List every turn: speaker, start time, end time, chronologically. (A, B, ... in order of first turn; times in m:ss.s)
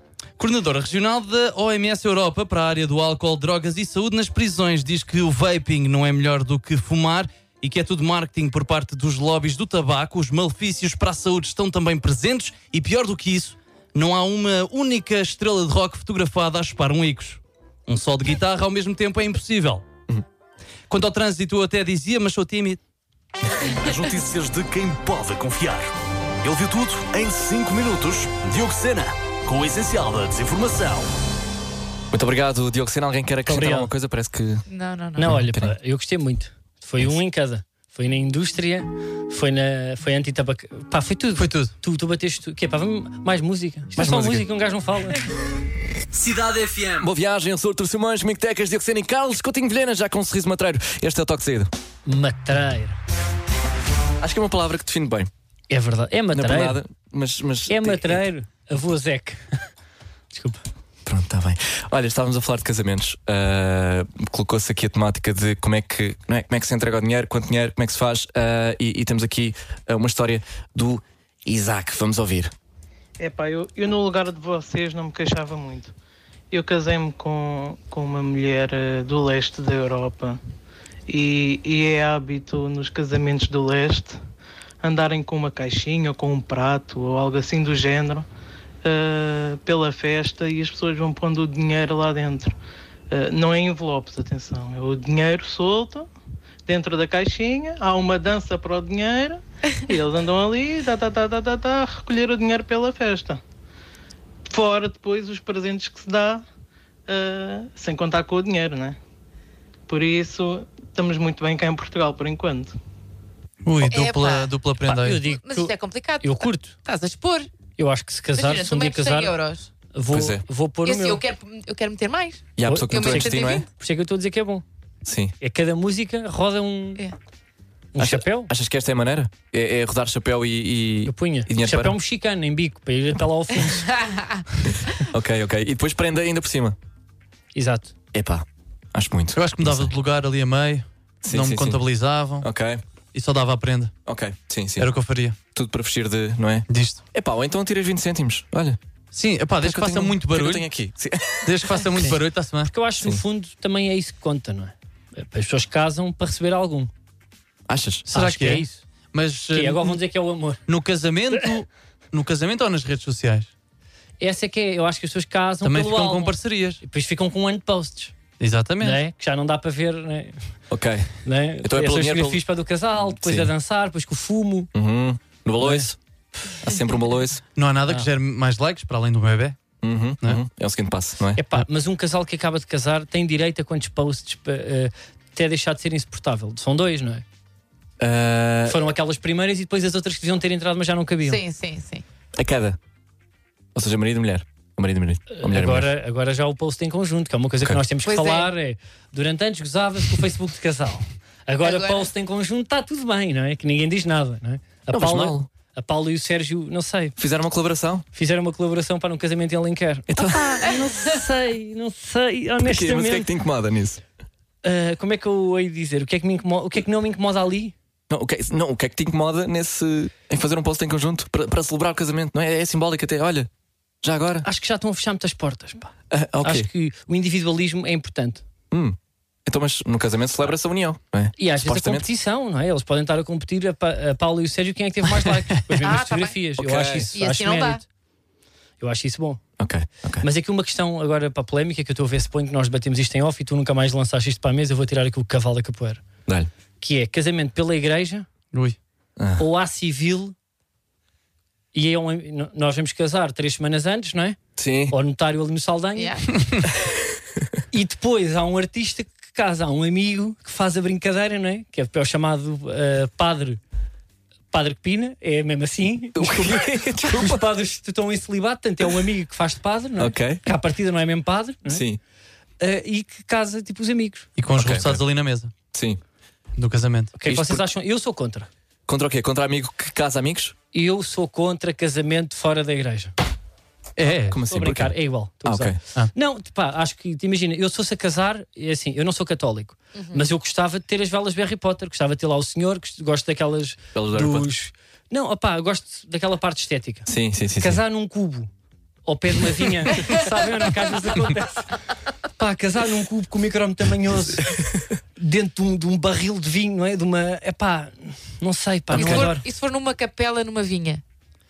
0:00.4-0:19.8 A
0:20.9-0:22.8 A
0:23.7-0:25.9 B
0:26.4-0:31.1 B
0:32.1-0:34.6 C
0:33.4-0:33.9 D
0:34.7-0:35.3 E
0:35.2-0:45.2 D
0:35.2-0:35.7 C
0:41.4-0:41.7 A
0:44.0-0:44.4 C
0:46.2-0:46.9 B
0:47.0-0:51.7 C
0:52.0-0:53.0 D
0:54.2-0:55.3 C
0:55.7-0:56.8 D
0:56.3-0:58.2 C
0:57.7-0:59.4 D
1:00.3-1:00.6 D
1:01.0-1:12.5 C
1:13.2-1:15.9 F
1:16.5-1:20.4 F
1:21.1-1:24.2 F
1:24.8-1:28.3 F
1:28.8-1:32.6 F
1:33.1-1:36.1 F
1:36.6-1:43.4 F
1:44.5-1:46.4 F
1:47.1-1:49.0 F
1:49.9-1:52.8 F
1:53.6-1:55.2 A
1:53.8-1:54.5 E
1:54.8-1:56.7 D
1:55.2-1:57.5 E
1:57.8-1:59.3 D
1:58.3-1:59.7 E
1:59.9-2:01.2 D
2:00.1-2:00.4 C
2:00.8-2:03.7 E
2:02.6-2:03.6 C
2:02.6-2:04.6 D
2:05.0-2:05.3 C
2:05.4-2:07.0 D
2:07.9-2:08.5 D
2:08.0-2:12.0 C
2:11.0-2:13.9 D
2:13.9-2:14.4 E
2:14.6-2:16.8 C
2:17.5-2:17.9 D
2:18.1-2:19.9 C
2:19.3-2:22.5 A
2:21.2-2:21.8 C
2:22.4-2:22.8 C
2:23.1-2:23.9 A
2:24.0-2:24.9 C
2:24.8-2:25.4 A
2:25.5-2:28.8 C
2:26.7-2:27.0 A
2:29.1-2:30.6 A
2:29.6-2:31.5 C
2:31.4-2:32.7 A
2:32.6-2:36.9 D
2:37.7-2:38.1 C
2:38.1-2:40.0 A
2:38.1-2:38.8 D
2:39.5-2:40.6 D
2:40.7-2:43.5 A
2:44.2-2:48.1 D
2:45.6-2:46.8 A
2:48.4-2:49.0 A
2:48.8-2:50.4 D
2:50.7-2:52.4 C
2:51.2-2:54.7 D
2:53.2-2:53.5 C
2:54.7-2:57.4 C
2:55.6-2:55.9 D
2:57.6-2:59.6 A
2:59.8-3:01.4 C
3:01.4-3:07.2 D
3:08.0-3:08.8 C
3:08.7-3:11.4 D
3:11.2-3:12.0 E
3:12.3-3:12.8 C
3:13.7-3:15.9 C
3:15.3-3:27.2 D
3:18.0-3:18.5 E
3:21.6-3:22.1 E
3:24.9-3:25.5 C
3:27.2-3:28.0 C
3:28.1-3:33.3 D
3:30.1-3:30.7 C
3:32.6-3:34.0 C
3:34.6-3:37.7 D
3:38.1-3:43.5 C
3:44.0-3:44.4 C
3:44.4-3:48.4 D
3:46.1-3:46.7 C
3:48.7-3:52.1 C
3:51.4-3:57.8 D
3:55.8-3:56.4 E
3:56.6-3:57.1 C
3:57.1-3:57.8 E
3:58.8-3:59.4 D
3:59.6-4:00.2 C
4:00.2-4:06.0 D
4:06.8-4:08.3 D
4:09.2-4:09.4 C
4:09.4-4:10.3 D
4:11.7-4:14.4 D
4:14.6-4:15.0 C
4:14.9-4:16.2 D
4:16.0-4:16.3 E
4:17.7-4:23.6 D
4:24.5-4:31.8 D
4:26.1-4:27.5 C
4:30.0-4:30.4 C
4:31.6-4:32.0 C
4:32.6-4:34.3 D
4:34.4-4:35.5 A
4:34.5-4:35.0 C
4:35.7-4:36.0 C
4:36.6-4:37.1 A
4:37.2-4:38.5 D
4:37.2-4:37.6 C
4:38.9-4:40.5 C
4:40.7-4:43.1 D
4:44.0-4:44.4 A
4:44.3-4:45.8 C
4:44.4-4:58.5 D
4:49.9-4:50.2 E
4:53.9-4:54.5 C
4:57.0-4:57.8 C
4:59.0-5:01.7 D
5:02.4-5:09.4 D
5:08.9-5:11.0 E